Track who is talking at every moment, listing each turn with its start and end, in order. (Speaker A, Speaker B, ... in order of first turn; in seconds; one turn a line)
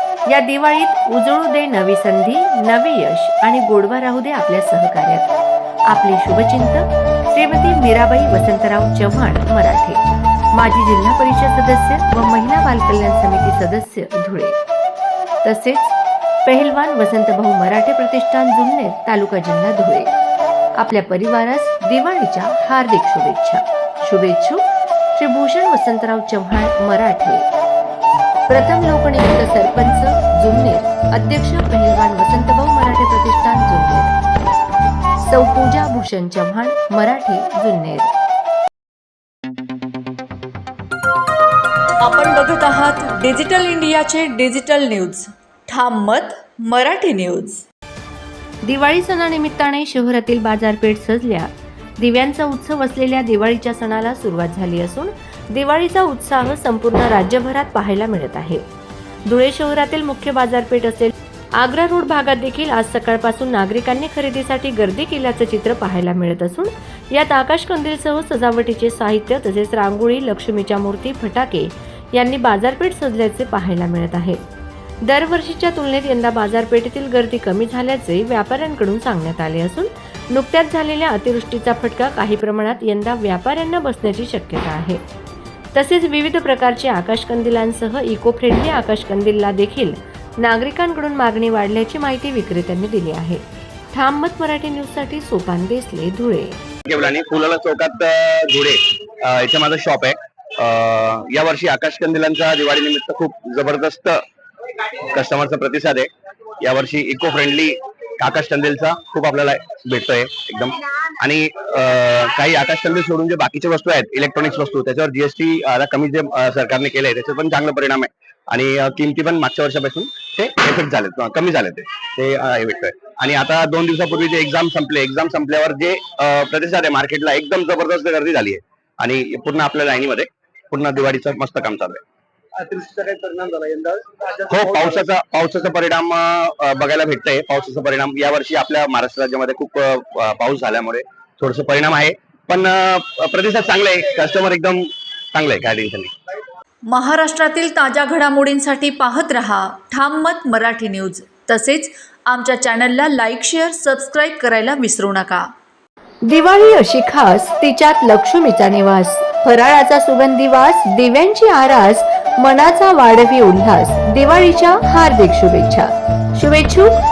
Speaker A: 0.3-5.3
Speaker A: 5.9-10.0
Speaker A: 10.5-14.6
Speaker A: 15.4-20.1
Speaker A: 20.8-24.6
Speaker A: 25.1-27.5
Speaker A: 28.5-34.1
Speaker A: 35.2-38.1
Speaker B: 42.0-47.6
Speaker A: 48.6-58.6
Speaker A: 59.3-74.4
Speaker A: 75.0-85.0
Speaker A: 85.7-96.6
Speaker C: 96.9-104.2
Speaker C: 105.1-106.1
Speaker C: 106.6-132.0
Speaker D: 132.6-134.9
Speaker C: 134.5-146.1
Speaker B: 146.9-155.5
Speaker A: 156.2-166.9